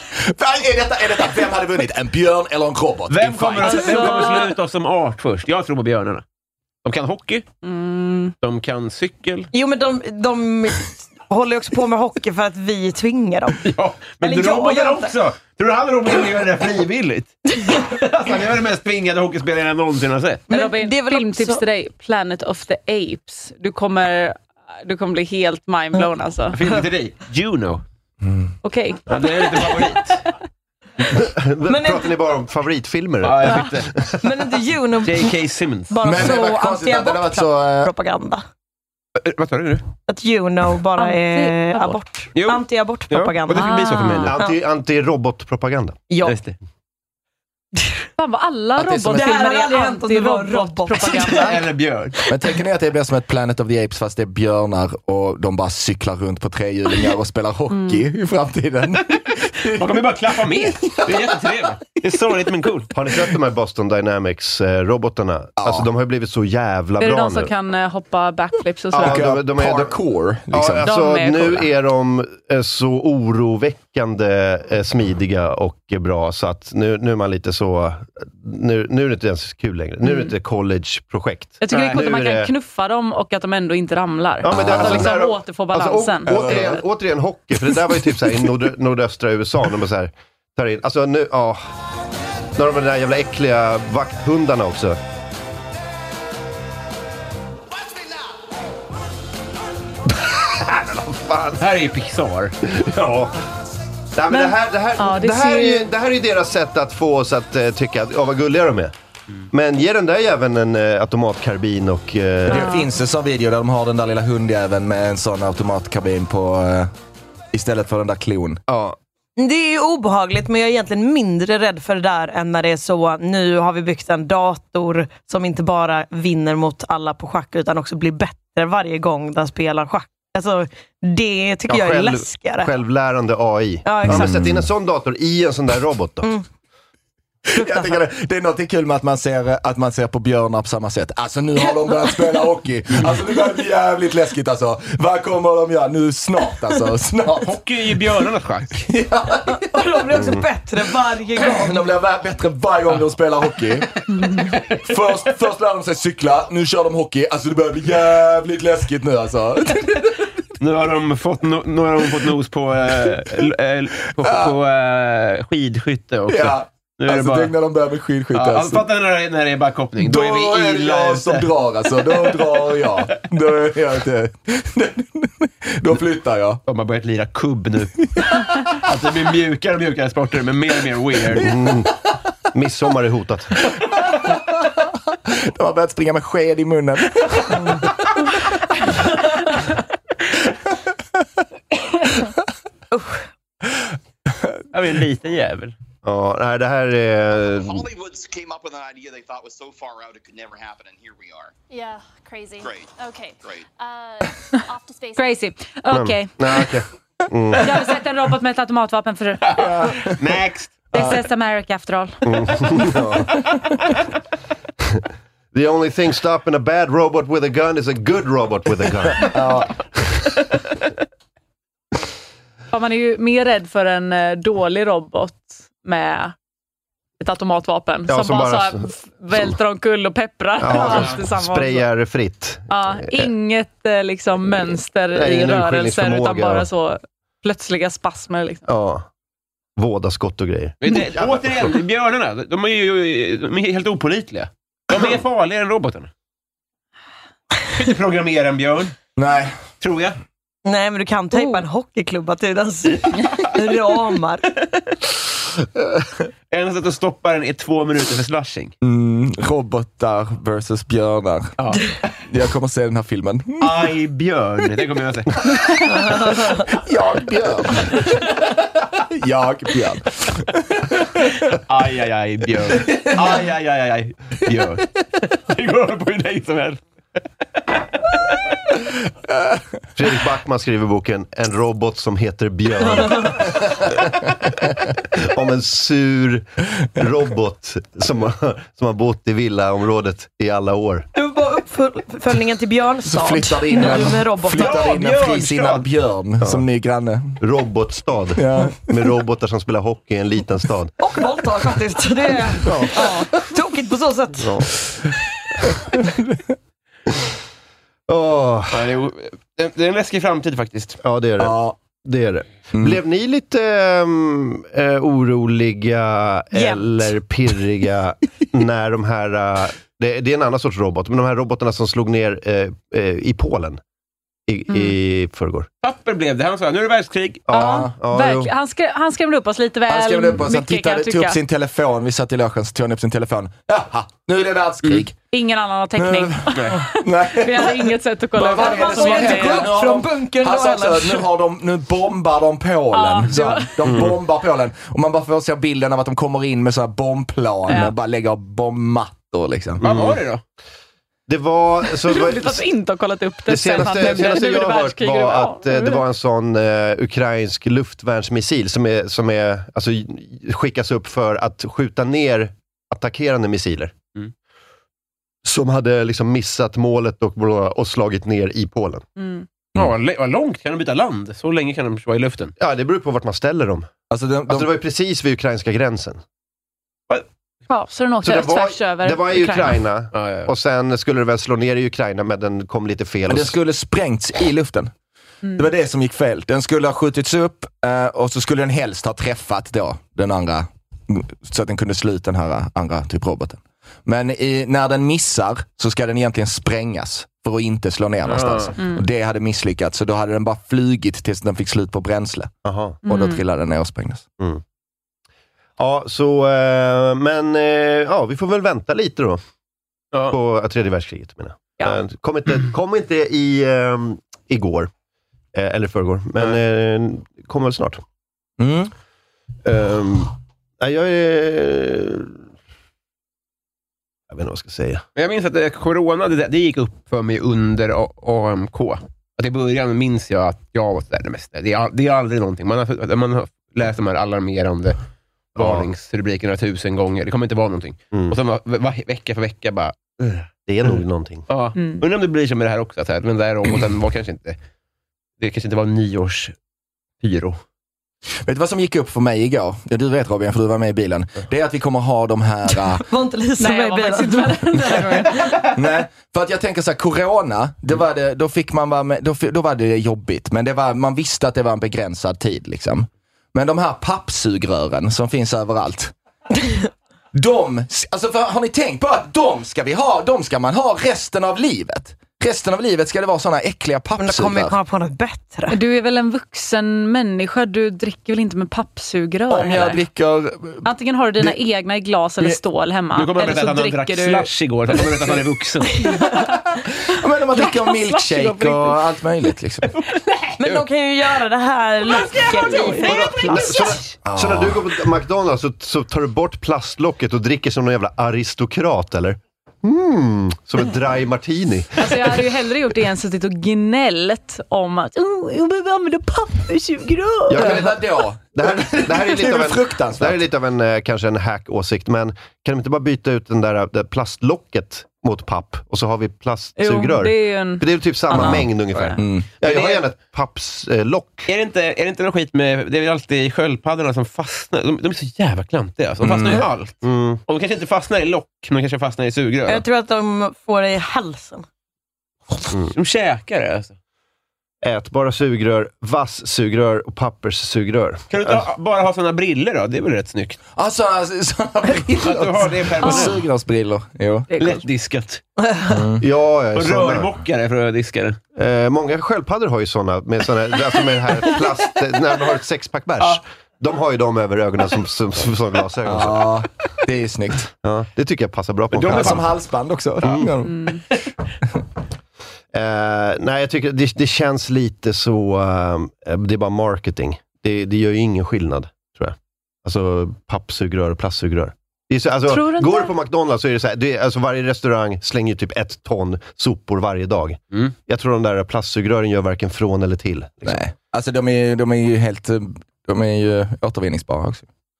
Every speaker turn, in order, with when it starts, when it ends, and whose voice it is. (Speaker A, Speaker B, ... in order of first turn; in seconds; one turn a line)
Speaker A: 0.2-4.3
Speaker B: 3.1-6.2
Speaker C: 3.8-4.4
Speaker B: 6.8-7.5
Speaker C: 7.6-8.3
Speaker B: 8.4-9.5
Speaker D: 9.5-13.7
Speaker B: 13.6-20.4
Speaker D: 14.2-15.1
Speaker D: 20.5-21.6
Speaker C: 20.5-26.6
Speaker B: 26.5-27.8
Speaker A: 28.2-28.5
Speaker C: 28.6-29.9
Speaker B: 29.1-30.2
Speaker E: 31.1-34.1
Speaker D: 31.7-32.1
Speaker B: 33.2-34.0
Speaker D: 34.2-35.4
Speaker B: 35.0-36.0
Speaker D: 35.9-38.4
Speaker A: 36.0-37.9
Speaker B: 39.2-39.8
Speaker D: 40.1-44.6
Speaker C: 41.0-42.0
Speaker B: 42.3-44.4
Speaker C: 43.5-44.4
Speaker E: 44.3-46.0
Speaker D: 46.1-46.4
Speaker B: 46.2-46.5
Speaker C: 48.2-51.6
Speaker A: 48.8-49.3
Speaker D: 49.1-51.6
Speaker B: 51.2-52.1
Speaker A: 52.3-61.4
Speaker C: 57.7-58.0
Speaker B: 59.7-62.9
Speaker E: 62.9-67.5
Speaker A: 65.6-65.9
Speaker C: 67.0-69.3
Speaker E: 68.9-70.0
Speaker A: 69.0-70.9
Speaker E: 70.5-82.5
Speaker C: 70.8-71.7
Speaker C: 80.0-80.3
Speaker C: 81.6-86.8
Speaker B: 81.7-82.0
Speaker E: 84.4-91.6
Speaker A: 84.4-85.1
Speaker A: 86.2-86.8
Speaker E: 92.5-95.0
Speaker E: 100.2-101.6
Speaker B: 101.6-102.5
Speaker E: 102.7-103.3
Speaker E: 104.1-108.9
Speaker C: 104.3-105.9
Speaker E: 109.5-112.7
Speaker A: 112.5-116.9
Speaker C: 112.5-112.9
Speaker A: 117.5-118.6
Speaker D: 119.4-132.7
Speaker E: 131.7-136.3
Speaker D: 133.8-134.4
Speaker A: 134.0-134.7
Speaker A: 137.5-147.6
Speaker D: 137.6-137.9
Speaker B: 147.5-148.8
Speaker A: 148.9-149.6
Speaker D: 149.5-151.8
Speaker E: 150.1-150.4
Speaker A: 151.5-160.1
Speaker B: 160.6-167.5
Speaker A: 164.2-164.5
Speaker A: 166.3-168.8
Speaker B: 168.3-171.5
Speaker A: 170.0-176.6
Speaker B: 176.7-181.5
Speaker E: 181.3-181.9
Speaker E: 182.5-183.5
Speaker A: 184.4-187.7
Speaker D: 192.9-193.2
Speaker B: 194.7-195.7
Speaker E: 196.0-197.8
Speaker F: 197.6-201.5
Speaker G: 201.7-205.2
Speaker F: 202.6-203.7
Speaker C: 205.2-206.7
Speaker E: 205.9-207.8
Speaker C: 207.6-209.6
Speaker B: 209.5-210.9
Speaker A: 209.6-210.1
Speaker C: 210.9-212.3
Speaker E: 212.2-213.3
Speaker E: 215.5-219.3
Speaker A: 219.2-219.7
Speaker C: 222.7-226.3
Speaker C: 227.2-231.9
Speaker E: 228.1-229.6
Speaker E: 230.6-233.3
Speaker C: 232.7-238.7
Speaker E: 235.1-236.7
Speaker E: 238.7-239.1
Speaker E: 239.8-241.8
Speaker B: 240.8-246.1
Speaker B: 247.7-248.9
Speaker A: 249.2-249.6
Speaker B: 249.8-250.2
Speaker D: 250.6-254.5
Speaker C: 251.3-251.6
Speaker B: 256.5-258.7
Speaker A: 258.8-263.9
Speaker B: 263.6-265.5
Speaker D: 265.9-266.6
Speaker A: 266.7-268.1
Speaker A: 269.1-271.2
Speaker B: 271.5-276.8
Speaker E: 279.9-284.1
Speaker E: 285.1-291.1
Speaker D: 291.1-294.9
Speaker A: 293.0-297.4
Speaker B: 294.5-295.9
Speaker E: 297.4-300.9
Speaker A: 298.4-298.9
Speaker D: 301.0-304.5
Speaker A: 302.6-303.3
Speaker E: 304.4-304.7
Speaker A: 305.9-306.4
Speaker E: 308.1-308.9
Speaker B: 308.7-311.0
Speaker E: 311.0-323.8
Speaker A: 311.4-311.8
Speaker D: 316.5-317.1
Speaker E: 324.5-325.7
Speaker C: 324.7-324.9
Speaker B: 325.8-327.5
Speaker E: 327.5-328.5
Speaker C: 327.5-331.4
Speaker A: 327.6-327.9
Speaker A: 329.9-335.1
Speaker C: 335.3-339.8
Speaker A: 336.0-349.8
Speaker B: 336.5-336.8
Speaker D: 338.5-341.2
Speaker C: 342.9-343.9
Speaker E: 343.8-344.1
Speaker C: 347.7-347.9
Speaker E: 349.8-350.2
Speaker B: 349.8-350.4
Speaker E: 351.3-352.7
Speaker C: 351.9-356.0
Speaker E: 353.4-363.9
Speaker E: 365.4-369.0
Speaker C: 369.2-369.4
Speaker B: 369.8-372.5
Speaker E: 372.6-373.9
Speaker A: 374.1-374.7
Speaker E: 374.5-376.2
Speaker C: 377.7-379.8
Speaker E: 378.2-383.5
Speaker B: 380.1-380.5
Speaker A: 383.3-384.9
Speaker A: 385.6-402.5
Speaker B: 398.2-398.7
Speaker E: 402.6-403.0
Speaker C: 403.0-403.4
Speaker A: 403.1-404.2
Speaker E: 405.8-409.4
Speaker E: 410.3-414.9
Speaker E: 415.5-418.0
Speaker A: 418.6-418.9
Speaker E: 419.6-422.4
Speaker E: 424.3-425.0
Speaker B: 425.1-435.0
Speaker B: 435.5-440.2
Speaker E: 435.6-435.9
Speaker E: 440.6-441.5
Speaker B: 441.5-444.6
Speaker C: 441.8-442.0
Speaker B: 445.4-446.5
Speaker B: 447.2-447.6
Speaker A: 448.4-453.0
Speaker D: 453.0-455.2
Speaker C: 453.6-455.7
Speaker A: 455.7-466.1
Speaker A: 467.3-474.7
Speaker D: 474.2-475.8
Speaker C: 475.7-480.0
Speaker A: 479.5-480.9
Speaker C: 480.8-485.1
Speaker B: 483.1-486.1
Speaker A: 487.1-489.9
Speaker C: 487.6-489.0
Speaker D: 490.6-493.7
Speaker C: 492.2-493.9
Speaker E: 493.1-502.4
Speaker A: 494.2-494.9
Speaker C: 502.0-507.8
Speaker E: 507.5-508.0
Speaker A: 507.5-510.4
Speaker E: 508.5-521.5
Speaker C: 516.8-519.1
Speaker A: 518.3-518.6
Speaker B: 518.4-519.1
Speaker A: 519.2-519.5
Speaker B: 519.6-520.0
Speaker B: 521.5-529.8
Speaker A: 526.2-526.6
Speaker E: 527.0-527.4
Speaker D: 529.6-531.6
Speaker B: 532.9-533.9
Speaker E: 534.8-538.6
Speaker B: 538.3-540.6
Speaker A: 540.8-544.5
Speaker B: 542.2-543.4
Speaker C: 544.5-544.8
Speaker B: 544.6-545.4
Speaker D: 545.6-546.0
Speaker A: 545.9-546.2
Speaker E: 546.2-547.3
Speaker B: 546.7-548.4
Speaker E: 548.5-556.5
Speaker A: 556.0-557.7
Speaker E: 557.8-559.5
Speaker B: 558.9-559.5
Speaker A: 559.1-561.0
Speaker E: 560.2-560.5
Speaker E: 562.7-580.8
Speaker C: 572.5-573.1
Speaker A: 580.6-584.6